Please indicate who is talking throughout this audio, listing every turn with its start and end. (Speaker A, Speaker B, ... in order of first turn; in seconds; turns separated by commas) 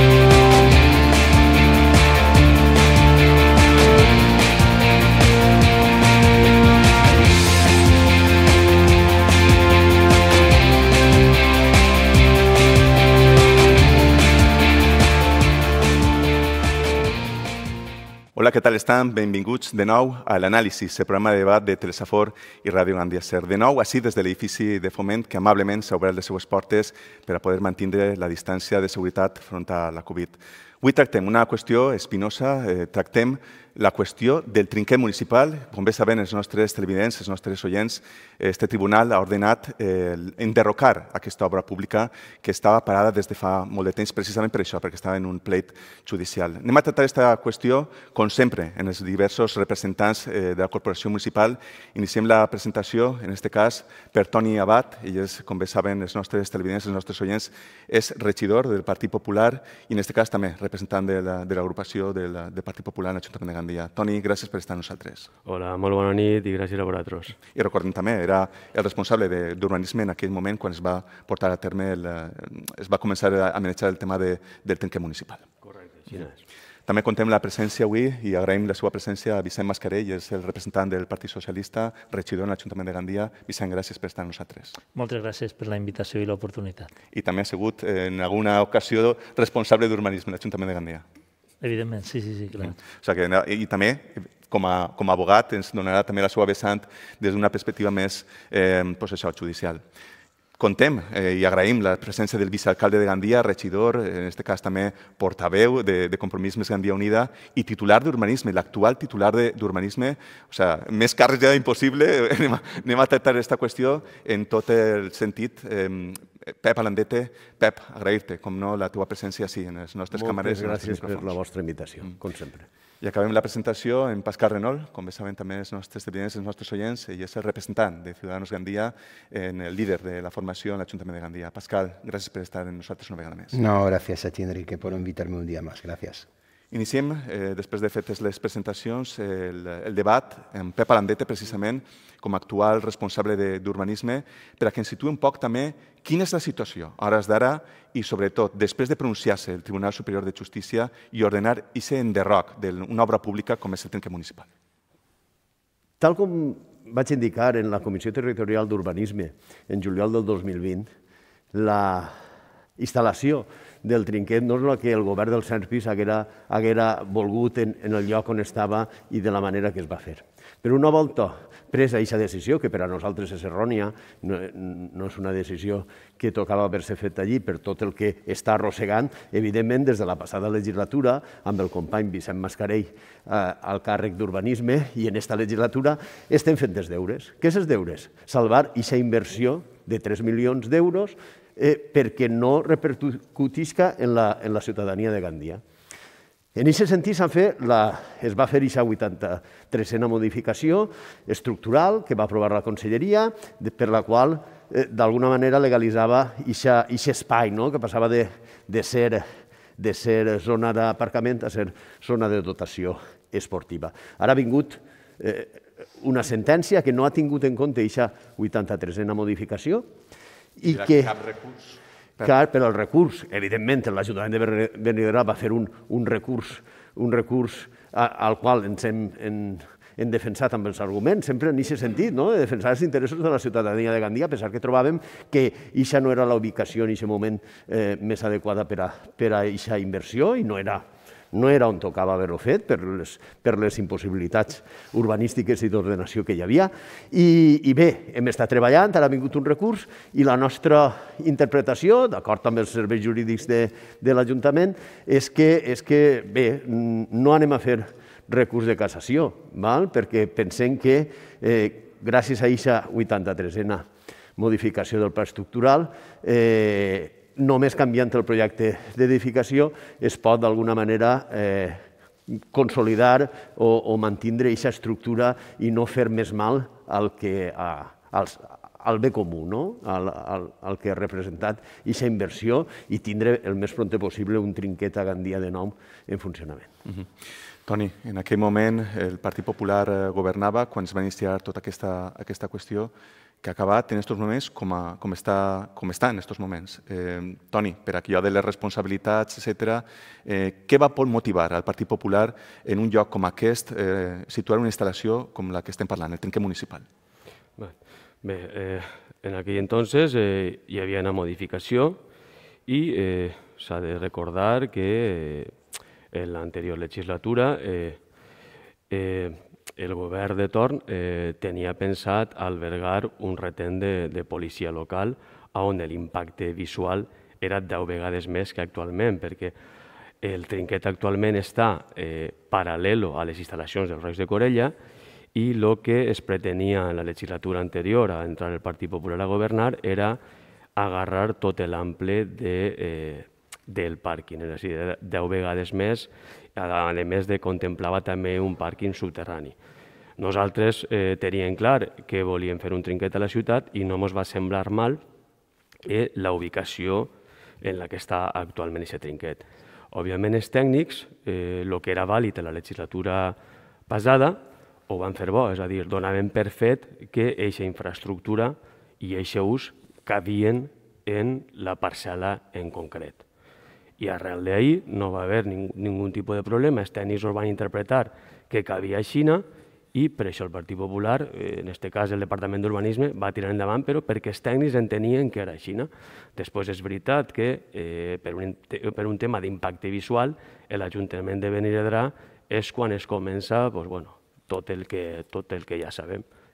Speaker A: 18.4-65.3, Speaker B: 65.5-67.4, Speaker A: 67.5-75.5, Speaker B: 75.6-76.4, Speaker A: 76.9-84.8, Speaker C: 84.9-86.9, Speaker A: 87.1-91.0, Speaker C: 91.6-92.8, Speaker A: 92.8-99.8, Speaker A: 100.6-121.4, Speaker D: 120.1-122.7, Speaker A: 123.0-133.6, Speaker E: 133.5-136.3, Speaker A: 136.7-154.5, Speaker D: 156.0-160.9, Speaker D: 161.5-162.1, Speaker D: 162.8-195.6, Speaker D: 196.6-219.9, Speaker D: 220.6-221.2, Speaker A: 220.7-222.2, Speaker D: 222.2-286.7, Speaker A: 287.7-306.9, Speaker B: 307.6-312.0, Speaker B: 312.7-315.6, Speaker B: 316.1-318.0, Speaker B: 318.9-329.5, Speaker B: 330.2-334.7, Speaker B: 335.4-340.2, Speaker B: 340.8-349.6, Speaker B: 350.2-355.0, Speaker B: 355.9-363.4, Speaker B: 363.9-373.2, Speaker B: 374.0-396.2